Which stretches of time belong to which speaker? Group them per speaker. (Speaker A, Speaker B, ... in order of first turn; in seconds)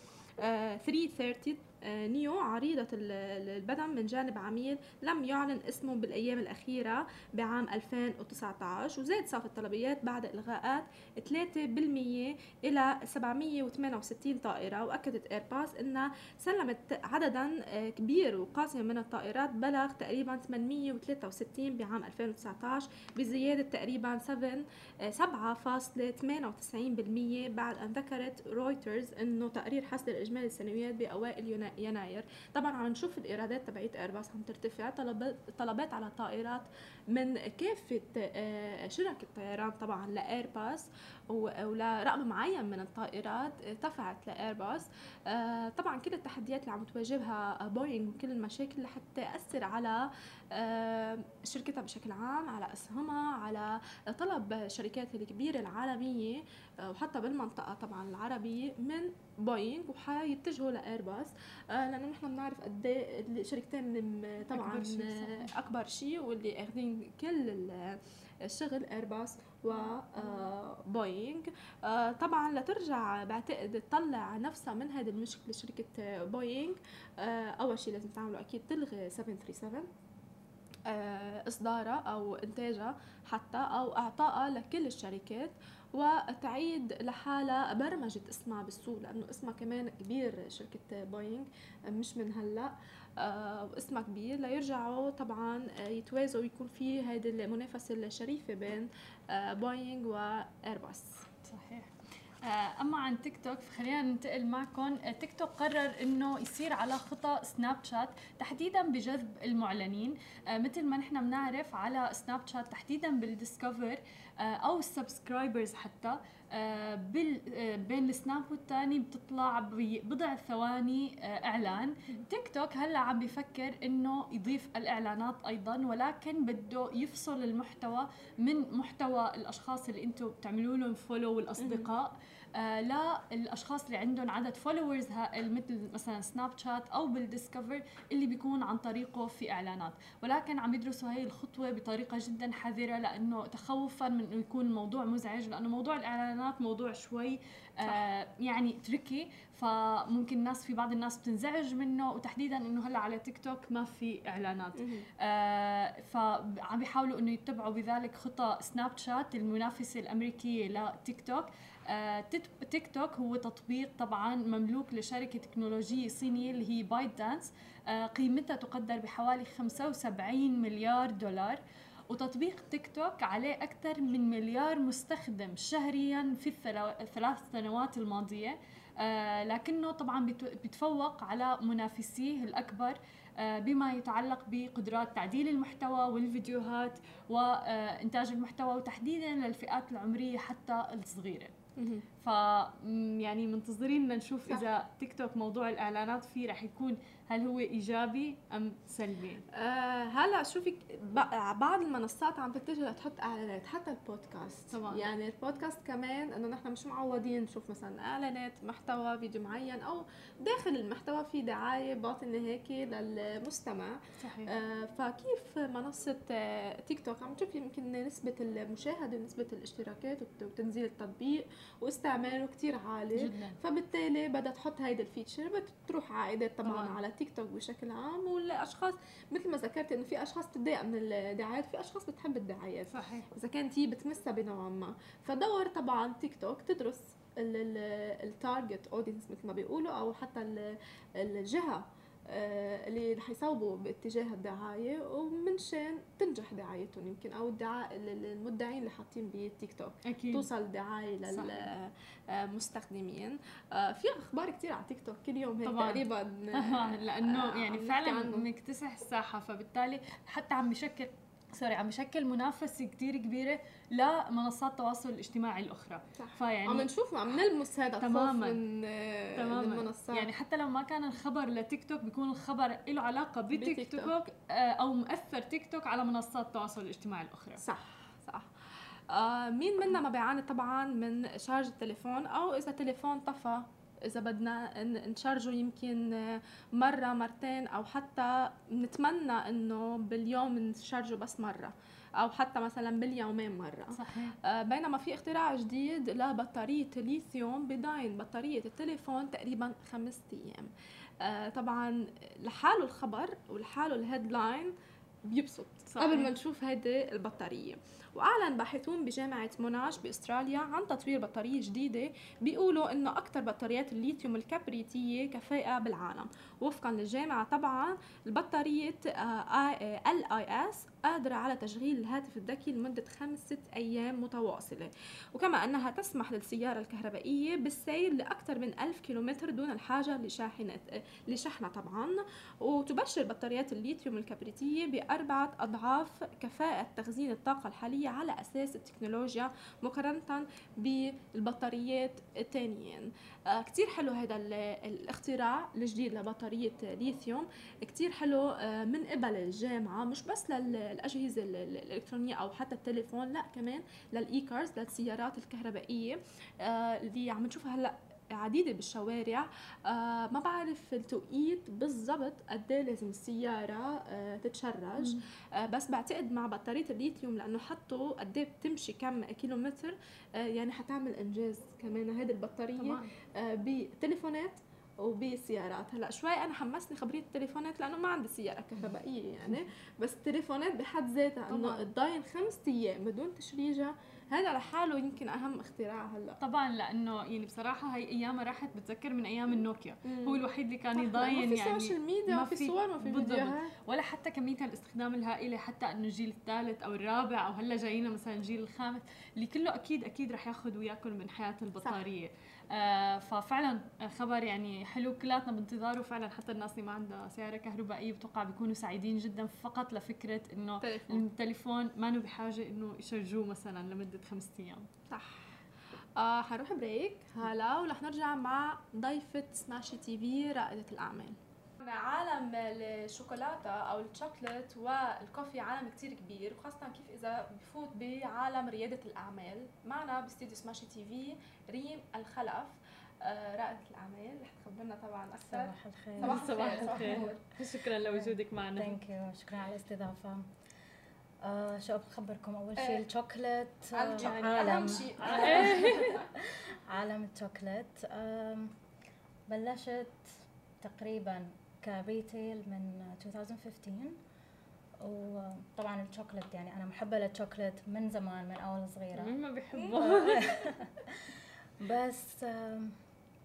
Speaker A: 0.4-79.9, 80.8-101.2, 131.6-131.9, 154.8-155.1, 191.8-192.0, 199.5-258.5, 266.2-270.3, 273.5-274.1, 277.6-386.4, 390.0-390.4, 390.9-393.7, 410.8-411.2, 415.1-415.6, 416.1-437.4, 442.8-443.0, 443.9-446.3, 459.7-460.5
Speaker B: 64.5-65.5, 101.4-101.9, 102.4-171.6, 172.1-191.5, 192.2-199.4, 204.7-205.1, 214.2-214.5, 223.1-223.6, 226.6-227.0, 232.9-233.3, 250.0-250.5, 251.3-251.7, 255.6-266.9, 268.0-268.6, 269.4-277.6, 293.9-294.4, 305.9-306.3, 365.0-365.2, 372.8-373.1, 381.5-381.9, 386.4-414.9, 436.2-438.9, 444.2-446.2, 459.1-460.6
Speaker C: 435.5-437.4, 438.0-440.5, 441.4-448.8, 449.5-454.2, 455.0-459.4, 459.9-463.0